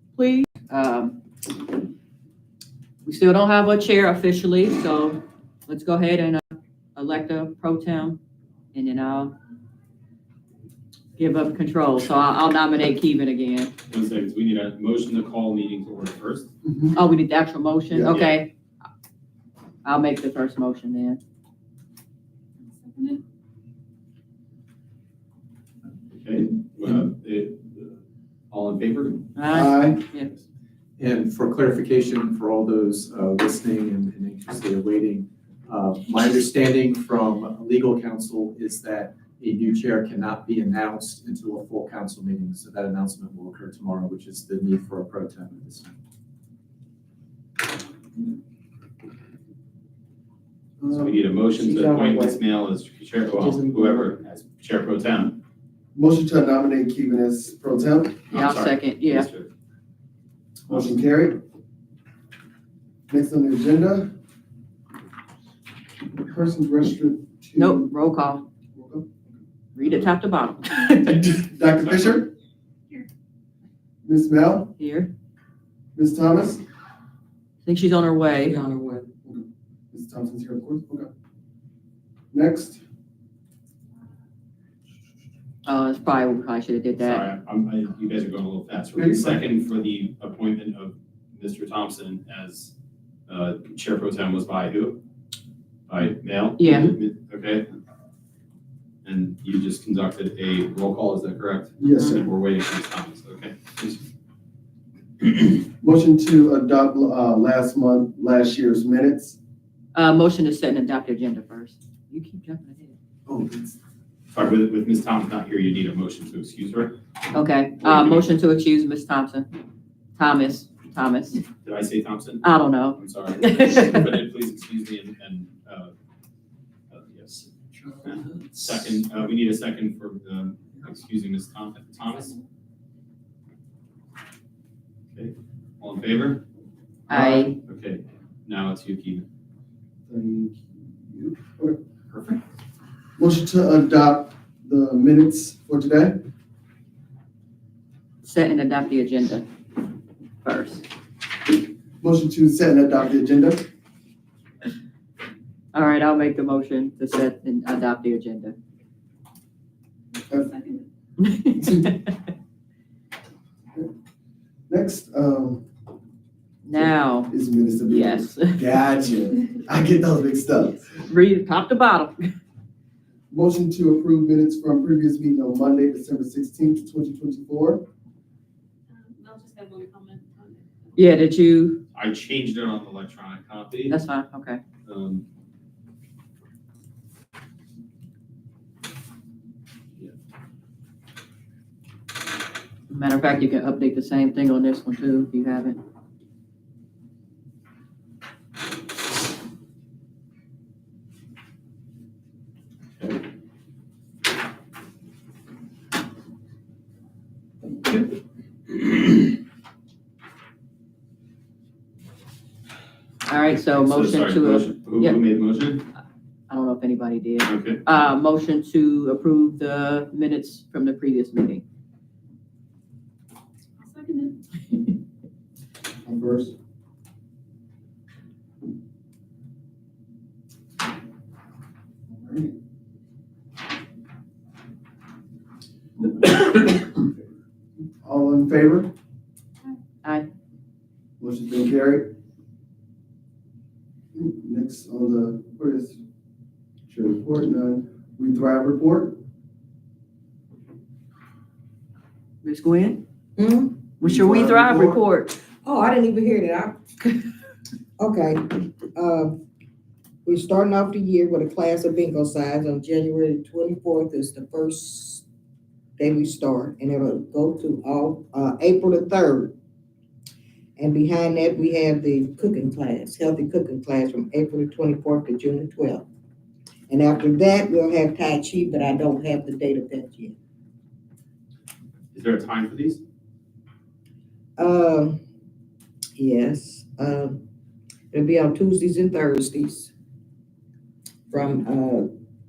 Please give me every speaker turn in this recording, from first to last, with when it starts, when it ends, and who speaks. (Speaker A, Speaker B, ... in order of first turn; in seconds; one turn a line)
Speaker A: 0.1-1.2
Speaker A: 3.0-8.2
Speaker A: 8.7-9.3
Speaker A: 11.2-13.7
Speaker B: 13.9-16.5
Speaker C: 16.6-17.0
Speaker A: 16.9-18.5
Speaker B: 18.1-18.4
Speaker A: 19.8-21.2
Speaker D: 22.8-23.2
Speaker B: 26.1-29.2
Speaker A: 29.4-30.3
Speaker C: 29.5-30.0
Speaker E: 31.0-46.0
Speaker C: 50.8-51.2
Speaker B: 50.9-55.4
Speaker F: 51.6-52.4
Speaker F: 53.3-54.1
Speaker C: 55.9-58.2
Speaker B: 58.3-59.5
Speaker A: 58.3-59.3
Speaker C: 60.7-61.4
Speaker C: 63.1-64.1
Speaker C: 66.2-67.9
Speaker A: 67.6-68.5
Speaker C: 68.8-69.2
Speaker A: 69.8-71.2
Speaker C: 71.0-72.3
Speaker B: 71.8-72.2
Speaker C: 74.0-74.7
Speaker A: 74.8-75.1
Speaker C: 76.0-76.6
Speaker A: 77.6-78.6
Speaker F: 78.5-79.1
Speaker C: 79.2-81.1
Speaker C: 82.3-82.8
Speaker A: 85.7-87.2
Speaker B: 87.0-92.7
Speaker C: 88.9-89.5
Speaker B: 93.3-95.0
Speaker B: 95.9-97.7
Speaker A: 96.6-96.9
Speaker B: 99.0-103.7
Speaker C: 101.8-102.3
Speaker A: 101.8-102.1
Speaker C: 105.2-109.4
Speaker A: 109.9-113.0
Speaker C: 113.2-113.8
Speaker B: 114.3-117.0
Speaker A: 117.3-119.5
Speaker B: 117.8-118.3
Speaker A: 120.2-121.4
Speaker B: 121.6-125.9
Speaker A: 122.4-124.0
Speaker B: 126.9-132.4
Speaker B: 135.1-136.4
Speaker C: 137.1-137.5
Speaker A: 137.1-137.6
Speaker B: 137.6-139.2
Speaker C: 140.1-141.8
Speaker B: 142.1-142.4
Speaker C: 143.2-146.2
Speaker A: 148.2-149.5
Speaker A: 150.4-150.8
Speaker C: 152.0-153.7
Speaker A: 155.7-158.6
Speaker C: 160.3-160.6
Speaker A: 161.2-161.9
Speaker C: 161.6-161.9
Speaker C: 164.7-165.6
Speaker C: 166.6-170.9
Speaker A: 166.7-167.3
Speaker A: 167.9-168.6
Speaker A: 171.1-172.2
Speaker C: 173.3-177.8
Speaker D: 178.9-180.9
Speaker A: 181.0-181.8
Speaker B: 181.9-184.0
Speaker A: 183.9-184.6
Speaker B: 184.8-185.2
Speaker A: 192.9-195.8
Speaker A: 213.3-215.2
Speaker B: 213.7-215.8
Speaker A: 216.5-221.6
Speaker B: 217.4-217.8
Speaker D: 223.8-224.4
Speaker C: 226.0-226.5
Speaker C: 232.2-232.5
Speaker C: 236.2-237.0
Speaker C: 238.0-238.9
Speaker A: 240.0-240.3
Speaker C: 241.2-242.1
Speaker C: 244.1-246.0
Speaker C: 246.9-249.2
Speaker A: 252.4-253.0
Speaker F: 253.4-253.9
Speaker A: 254.0-255.4
Speaker C: 254.0-255.0
Speaker F: 255.6-257.2
Speaker F: 258.0-259.4
Speaker F: 260.2-265.2
Speaker F: 266.0-269.5
Speaker F: 270.8-276.1
Speaker F: 276.9-280.3
Speaker B: 282.1-283.0
Speaker F: 284.6-285.2
Speaker F: 286.2-287.4
Speaker F: 288.1-289.9
Speaker F: 291.3-292.1